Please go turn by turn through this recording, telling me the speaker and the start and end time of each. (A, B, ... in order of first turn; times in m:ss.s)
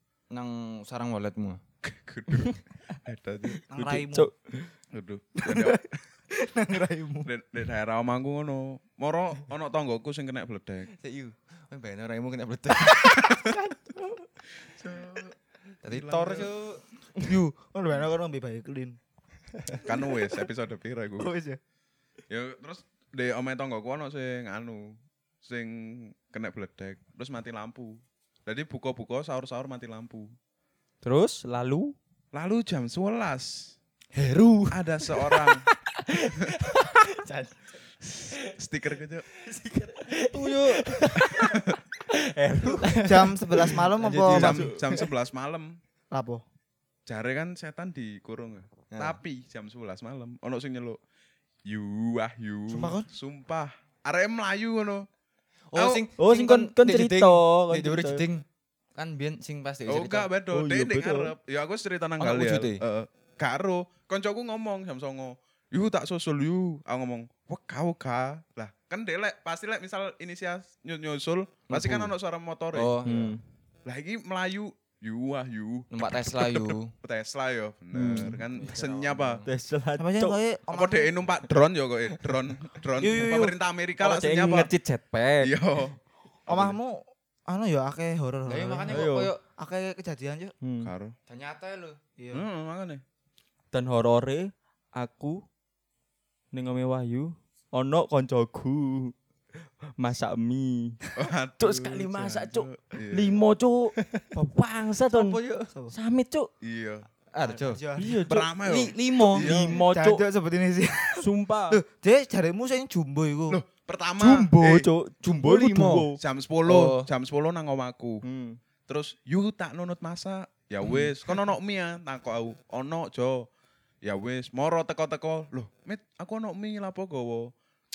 0:00.3-0:01.6 A
0:01.8-0:03.6 B
0:03.7-0:04.3 C
0:03.7-0:04.7 D
0:04.9-0:05.9 B
0:05.4-0:05.8 C
0:06.3-0:07.3 C
0:07.2-0:10.9 B
0:10.9-0:13.3 A
0:13.0-0:13.5 B
0:13.4-0:14.1 C
0:14.6-0:16.5 B
0:15.8-0:16.8 A
0:17.2-0:19.0 C
0:19.8-0:21.3 B
0:21.2-0:21.6 C
0:22.3-0:30.3 B
0:31.0-0:31.9 D
0:32.3-0:33.7 B
0:34.1-0:34.8 A
0:34.7-0:35.6 B
0:35.3-0:38.5 D
0:38.4-0:39.3 B
0:39.4-0:45.1 D
0:40.3-0:41.0 A
0:41.3-0:41.8 B
0:42.8-0:43.3 A
0:43.0-0:44.6 C
0:44.0-0:44.6 A
0:44.3-0:45.8 B
0:46.1-0:46.4 C
0:47.0-0:51.0 B
0:48.9-0:49.2 A
0:51.7-0:55.1 B
0:52.7-0:53.1 C
0:55.7-1:00.3 A
0:55.7-0:56.0 B
0:56.2-0:58.2 D
0:59.9-1:13.0 B
1:00.5-1:01.3 D
1:02.2-1:02.8 A
1:11.7-1:12.1 A
1:12.7-1:13.3 A
1:13.0-1:13.4 D
1:13.8-1:19.4 B
1:15.9-1:16.9 A
1:17.9-1:18.4 D
1:18.5-1:19.5 A
1:19.4-1:20.4 D
1:20.0-1:21.1 C
1:20.7-1:24.7 B
1:23.0-1:23.6 C
1:24.0-1:25.5 D
1:25.4-1:26.0 B
1:26.5-1:29.1 C
1:26.5-1:26.8 B
1:28.5-1:29.4 A
1:28.9-1:29.3 D
1:29.6-1:30.5 C
1:30.6-1:30.9 D
1:30.8-1:31.1 B
1:31.3-1:32.0 A
1:32.2-1:32.4 C
1:32.3-1:33.0 B
1:33.7-1:35.4 D
1:36.5-1:39.1 D
1:40.0-1:41.0 D
1:41.1-1:43.4 B
1:41.6-1:45.4 D
1:45.1-1:45.7 A
1:45.9-1:46.5 D
1:46.6-1:47.0 B
1:47.3-1:47.8 A
1:47.4-1:48.2 C
1:48.0-1:48.5 D
1:48.2-1:49.8 B
1:48.6-1:49.6 A
1:49.3-1:50.2 D
1:49.8-1:53.6 C
1:51.2-1:51.8 D
1:53.5-1:54.9 B
1:54.2-1:56.2 D
1:55.2-1:56.1 A
1:56.2-1:58.2 B
1:56.6-1:57.1 A
1:58.2-1:58.6 D
1:58.9-2:03.5 B
2:04.0-2:07.5 B